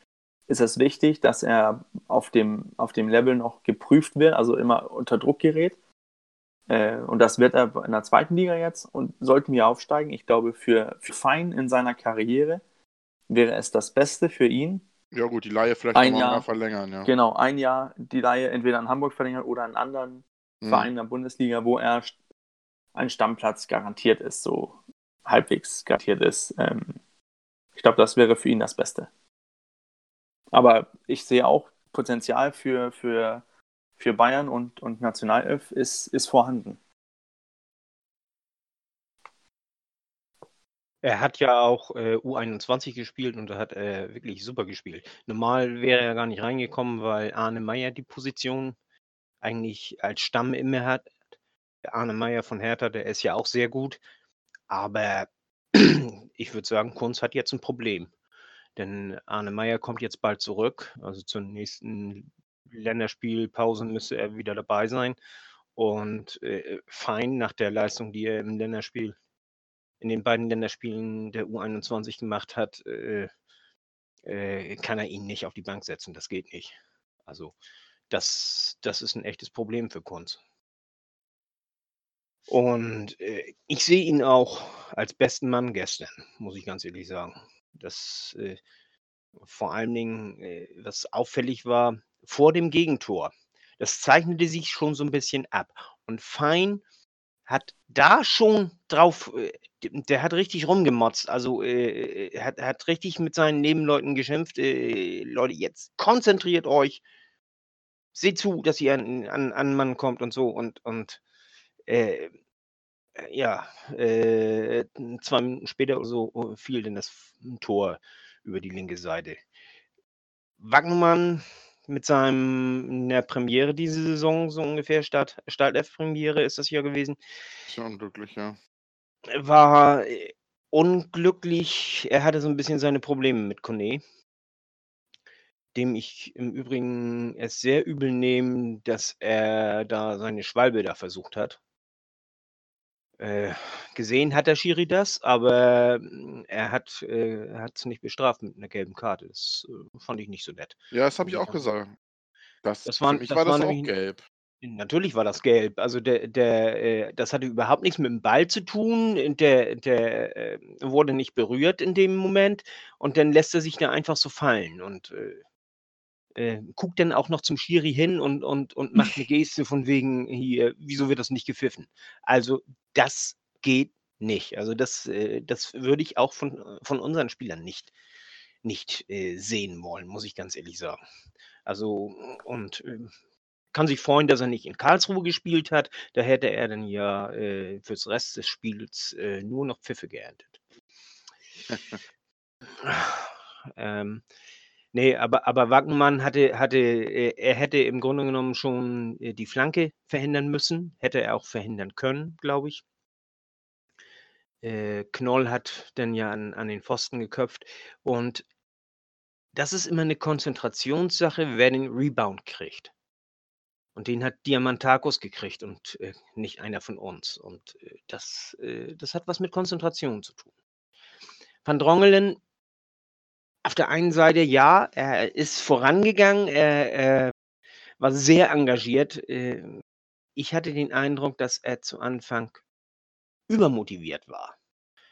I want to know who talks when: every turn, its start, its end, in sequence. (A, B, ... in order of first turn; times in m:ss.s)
0:00.5-0:05.8 A
0:06.7-0:12.6 A
0:13.3-0:14.8 A
0:15.1-0:17.1 B
0:16.0-0:16.5 A
0:17.0-0:22.2 A
0:20.6-0:20.9 B
0:23.0-0:27.0 A
0:27.8-0:29.1 A
0:30.5-0:33.4 A
0:34.0-0:36.8 A
0:41.0-0:48.8 C
0:49.4-0:51.1 C
0:51.8-0:54.0 C
0:54.7-0:58.1 C
0:58.8-1:05.2 C
1:05.8-1:09.2 C
1:10.0-1:13.3 C
1:14.2-1:16.8 C
1:17.3-1:17.5 C
1:18.1-1:20.4 C
1:22.5-1:28.6 C
1:29.4-1:36.8 C
1:37.5-1:47.0 C
1:48.1-1:51.2 C
1:51.9-1:52.3 C
1:53.2-1:59.4 C
2:00.6-2:07.2 C
2:07.7-2:08.6 B
2:09.3-2:14.0 C
2:15.8-2:21.6 C
2:23.2-2:31.6 C
2:30.9-2:31.9 B
2:32.6-2:34.2 B
2:32.8-2:33.9 C
2:34.6-2:45.4 C
2:46.4-2:57.9 C
2:58.6-3:01.0 C
3:01.6-3:03.1 C
3:03.7-3:10.6 C
3:12.8-3:14.2 C
3:14.9-3:22.8 C
3:24.6-3:28.4 C
3:29.5-3:32.9 C
3:34.0-3:40.5 C
3:41.6-3:42.4 C
3:43.6-3:47.3 C
3:48.0-3:49.8 C
3:50.4-3:52.6 C
3:53.5-3:54.5 C